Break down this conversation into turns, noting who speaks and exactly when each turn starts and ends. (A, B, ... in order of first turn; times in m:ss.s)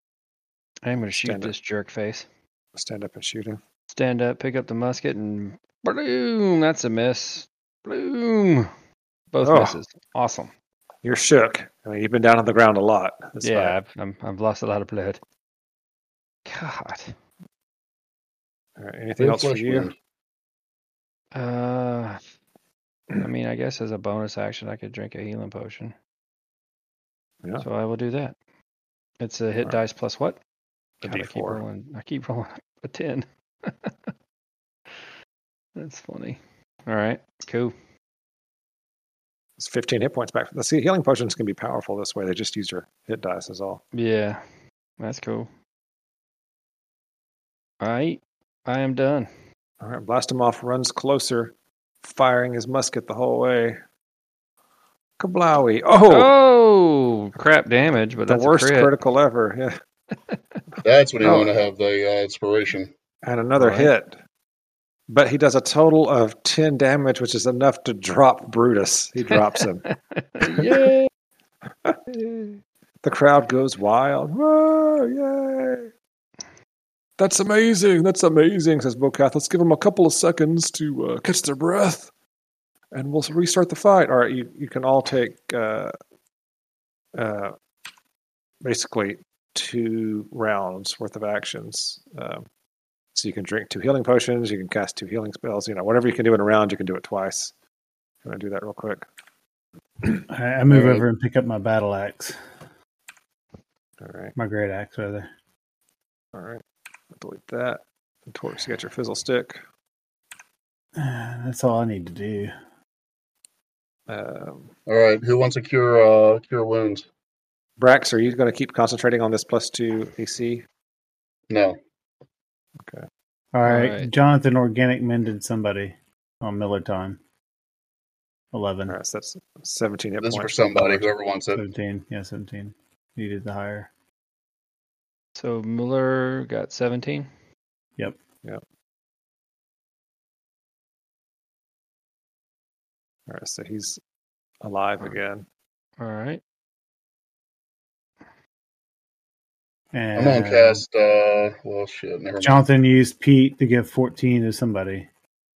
0:00.8-0:02.3 A
0:01.2-0:01.5 B
0:02.8-0:03.6 B
0:03.9-0:08.7 A
0:09.3-0:10.5 A
0:09.4-0:09.8 B
0:11.0-0:13.8 B
0:13.4-0:15.2 A
0:16.5-0:17.2 A
0:18.8-0:19.9 B
0:19.2-0:19.9 C
0:21.3-0:22.2 A
0:23.2-0:26.0 A
0:27.6-0:28.4 A
0:29.2-0:30.4 A
0:31.0-0:31.6 B
0:31.0-0:34.1 A
0:35.8-0:37.7 A
0:39.6-0:43.8 B
0:43.9-0:44.4 A
0:45.0-0:45.5 A
0:47.8-0:49.3 A
0:49.8-0:53.8 B
0:55.2-0:56.4 B
0:56.1-0:58.9 A
0:58.3-0:59.8 B
1:00.8-1:02.9 C
1:01.2-1:01.5 B
1:03.2-1:04.2 B
1:03.6-1:03.9 A
1:05.1-1:09.9 B
1:09.5-1:11.1 A
1:10.5-1:10.9 B
1:13.0-1:15.9 B
1:17.2-1:22.1 B
1:22.9-1:25.9 B
1:27.2-1:27.5 B
1:28.6-1:32.4 B
1:33.2-1:37.5 B
1:38.2-1:39.0 B
1:40.3-1:42.4 D
1:40.7-1:41.0 C
1:44.0-1:44.3 B
1:44.4-1:45.3 D
1:46.3-1:46.6 B
1:47.1-1:49.6 B
1:51.0-1:52.5 D
1:54.1-1:54.7 B
1:54.9-1:57.1 C
1:57.8-2:00.6 B
2:01.5-2:01.8 C
2:02.8-2:03.1 B
2:03.5-2:07.2 D
2:03.6-2:04.1 A
2:08.5-2:09.0 D
2:08.9-2:11.1 B
2:10.2-2:11.6 C
2:11.5-2:13.9 D
2:15.4-2:17.3 A
2:23.3-2:24.0 B
2:24.6-2:25.4 B
2:26.0-2:26.4 A
2:29.9-2:30.8 D
2:30.2-2:32.6 C
2:32.4-2:35.1 D